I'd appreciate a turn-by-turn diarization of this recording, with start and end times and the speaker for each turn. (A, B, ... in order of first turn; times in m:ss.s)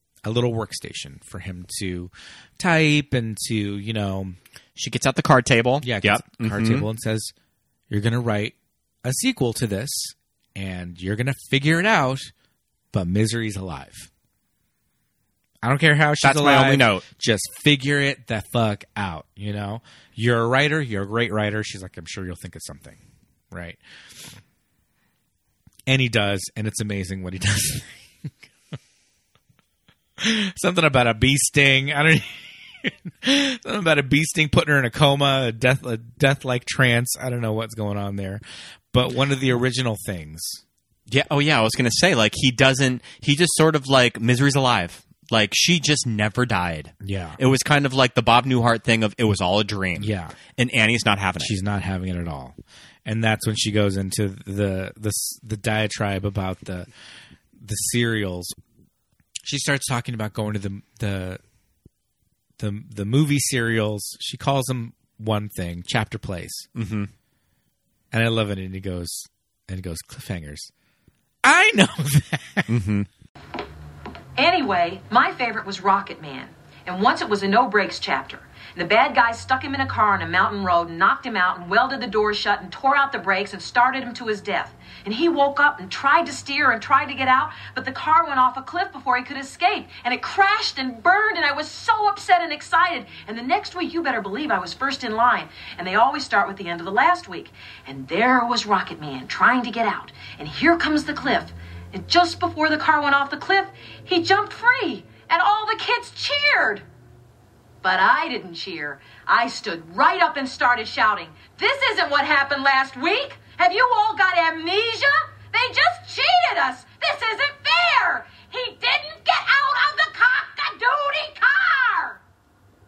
0:00.2-0:04.4 A
0:04.8-0:06.8 B
0:05.8-0:07.3 A
0:07.9-0:12.3 A
0:12.9-0:14.1 A
0:15.6-0:23.0 A
0:16.2-0:17.0 B
0:23.5-0:23.8 A
0:25.9-0:28.3 A
0:30.2-0:40.6 A
0:41.1-0:51.5 B
0:47.0-0:47.4 A
0:50.0-0:50.3 A
0:51.4-0:56.9 A
0:57.6-0:58.5 A
0:59.4-1:01.4 A
1:02.6-1:06.7 A
1:06.7-1:07.1 B
1:08.1-1:10.7 A
1:11.4-1:12.7 A
1:12.7-1:13.1 B
1:14.4-1:46.8 C
1:47.8-2:02.2 C